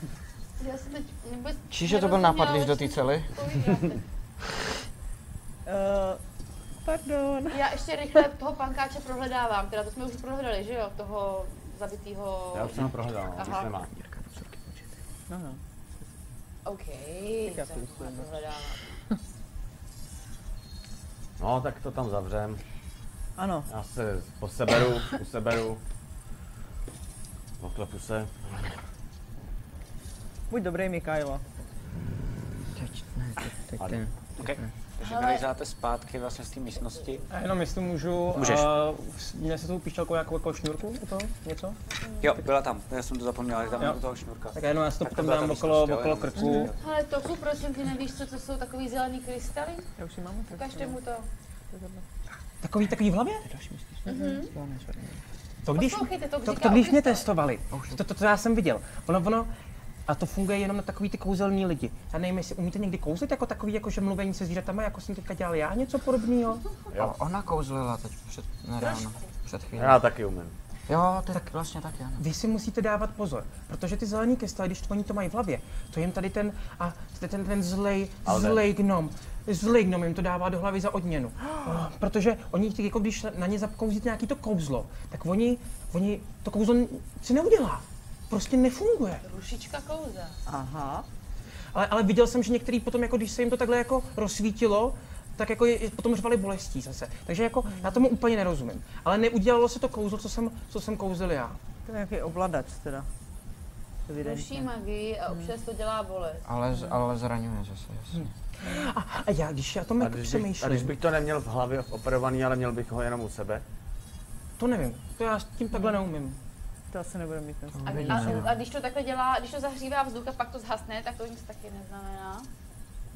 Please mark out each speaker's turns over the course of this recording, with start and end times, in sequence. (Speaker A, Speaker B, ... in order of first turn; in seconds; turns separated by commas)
Speaker A: 0.6-4.0, Speaker B: 1.7-3.3, Speaker C: 5.7-6.2, Speaker C: 6.8-7.7, Speaker A: 7.5-13.7, Speaker D: 12.5-13.9, Speaker B: 13.8-14.9, Speaker C: 15.3-15.6, Speaker A: 16.7-18.9, Speaker C: 17.4-18.3, Speaker D: 21.4-22.6, Speaker C: 23.4-23.7, Speaker D: 23.7-25.8, Speaker D: 27.6-28.8, Speaker C: 30.5-31.4, Speaker B: 32.6-34.7, Speaker E: 34.4-37.3, Speaker A: 35.0-35.5, Speaker F: 37.3-41.8, Speaker E: 38.3-38.7, Speaker E: 42.2-46.8, Speaker A: 43.6-44.0, Speaker F: 44.5-46.7, Speaker C: 46.4-46.7, Speaker A: 46.8-49.9, Speaker C: 50.0-51.0, Speaker A: 50.5-51.3, Speaker C: 51.7-52.0, Speaker F: 52.6-53.5, Speaker B: 53.5-55.2, Speaker A: 54.1-54.5, Speaker C: 54.1-54.4, Speaker F: 55.6-59.5, Speaker A: 55.7-57.3, Speaker B: 57.7-58.0, Speaker F: 60.1-66.8, Speaker B: 66.9-70.0, Speaker D: 69.8-70.5, Speaker B: 70.9-72.2, Speaker F: 72.2-89.2, Speaker D: 78.2-78.7, Speaker A: 89.2-90.4, Speaker C: 90.5-91.1, Speaker F: 91.7-101.6, Speaker C: 97.7-98.0, Speaker C: 101.9-103.1, Speaker C: 104.1-104.7, Speaker A: 104.2-106.4, Speaker B: 106.5-108.3, Speaker F: 108.2-110.9, Speaker D: 110.0-113.6, Speaker F: 114.6-116.4, Speaker C: 116.9-118.4, Speaker B: 117.7-118.5, Speaker A: 117.8-122.5